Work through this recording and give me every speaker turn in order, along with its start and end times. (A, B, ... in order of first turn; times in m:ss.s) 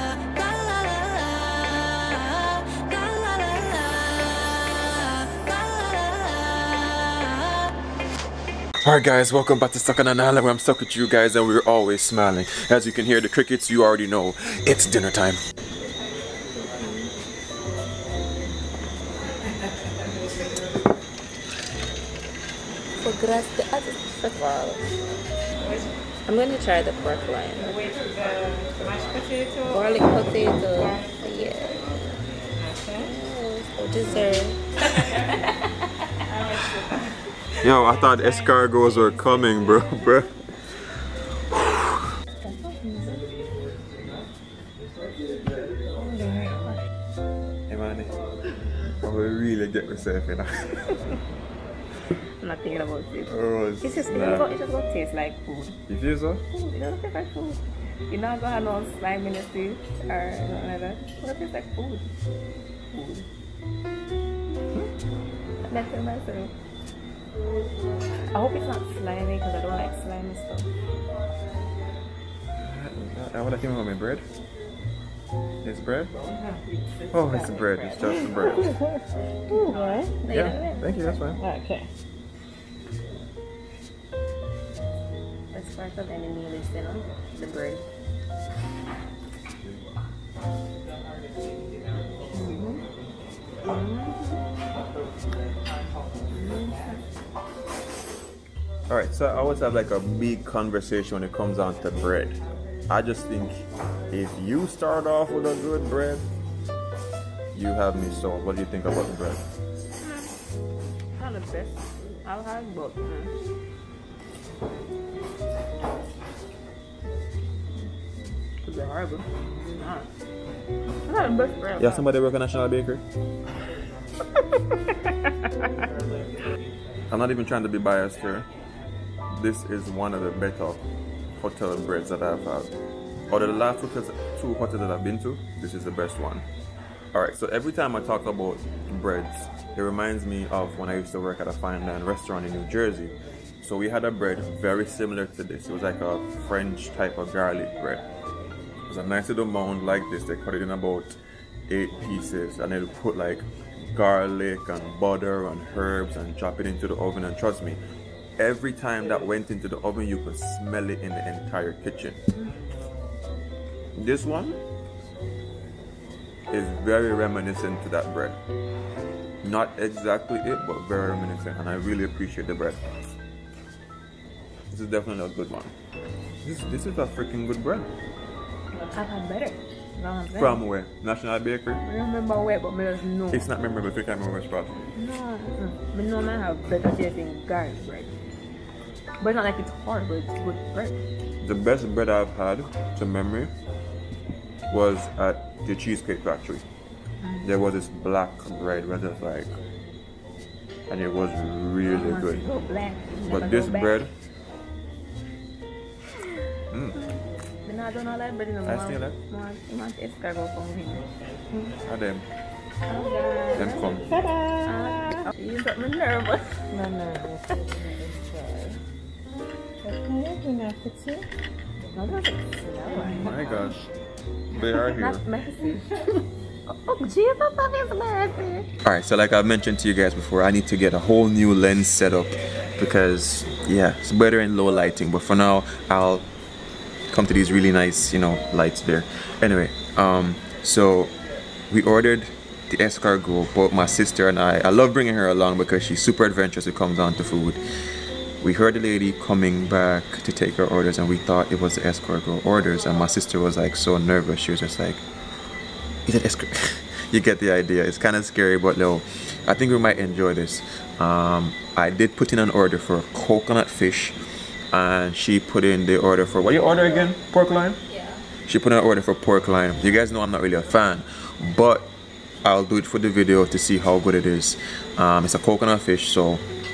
0:00.6-0:01.1 A
0:02.9-0:04.0 A
0:05.8-0:06.3 A
0:08.8-0:15.4 B
0:16.6-0:17.1 C
0:23.0-0:24.9 C
0:26.3-0:27.8 C
0:29.6-0:31.8 C
0:32.9-0:35.5 C
0:37.6-0:40.6 B
0:42.4-0:43.2 C
0:46.0-0:46.8 C
0:47.7-0:48.2 B
0:49.0-0:51.0 B
0:52.2-0:55.8 C
0:53.3-0:54.5 B
0:55.9-0:56.4 B
0:56.5-1:02.1 C
1:02.9-1:03.3 C
1:05.7-1:06.5 C
1:08.3-1:10.7 C
1:12.6-1:14.2 B
1:15.6-1:16.1 B
1:17.1-1:18.8 B
1:17.1-1:18.8 C
1:19.5-1:20.1 A
1:19.5-1:21.8 C
1:20.3-1:21.4 B
1:21.4-1:21.8 A
1:25.5-1:27.8 C
1:32.3-1:32.8 C
1:33.6-1:34.4 C
1:36.3-1:37.0 C
1:38.9-1:46.2 B
1:47.5-1:49.4 B
1:51.2-1:53.3 C
1:58.6-2:00.1 C
2:01.0-2:02.0 C
2:01.8-2:03.0 B
2:07.1-2:08.5 B
2:09.3-2:12.7 B
2:13.3-2:16.5 B
2:17.1-2:28.0 B
2:28.9-2:37.8 B
2:38.4-2:42.2 B
2:43.9-2:44.6 B
2:46.5-2:48.4 B
2:49.4-2:52.8 B
2:54.7-2:55.7 B
2:56.4-2:57.9 B
2:58.9-3:00.7 C
3:00.3-3:01.8 B
3:01.8-3:03.5 C
3:03.3-3:04.8 B
3:04.9-3:08.1 C
3:09.2-3:11.0 C
3:11.4-3:13.5 B
3:14.7-3:16.6 B
3:17.2-3:17.5 C
3:17.4-3:19.5 B
3:20.9-3:22.5 B
3:21.8-3:24.0 C
3:23.2-3:24.1 B
3:26.7-3:27.0 B
3:27.6-3:31.8 C
3:28.6-3:29.2 B
3:31.8-3:32.3 B
3:32.9-3:38.8 C
3:33.5-3:34.2 B
3:39.8-3:41.2 A
3:40.4-3:40.7 C
3:41.9-3:43.7 C
3:43.0-3:43.9 B
3:44.5-3:45.2 B
3:44.7-3:45.9 C
3:46.7-3:48.7 C
3:48.8-3:56.3 B
3:57.1-4:01.2 B
4:01.7-4:07.6 B
4:08.4-4:15.0 B
4:16.1-4:24.2 B
4:24.7-4:27.8 B
4:27.9-4:28.2 C
4:28.4-4:36.4 B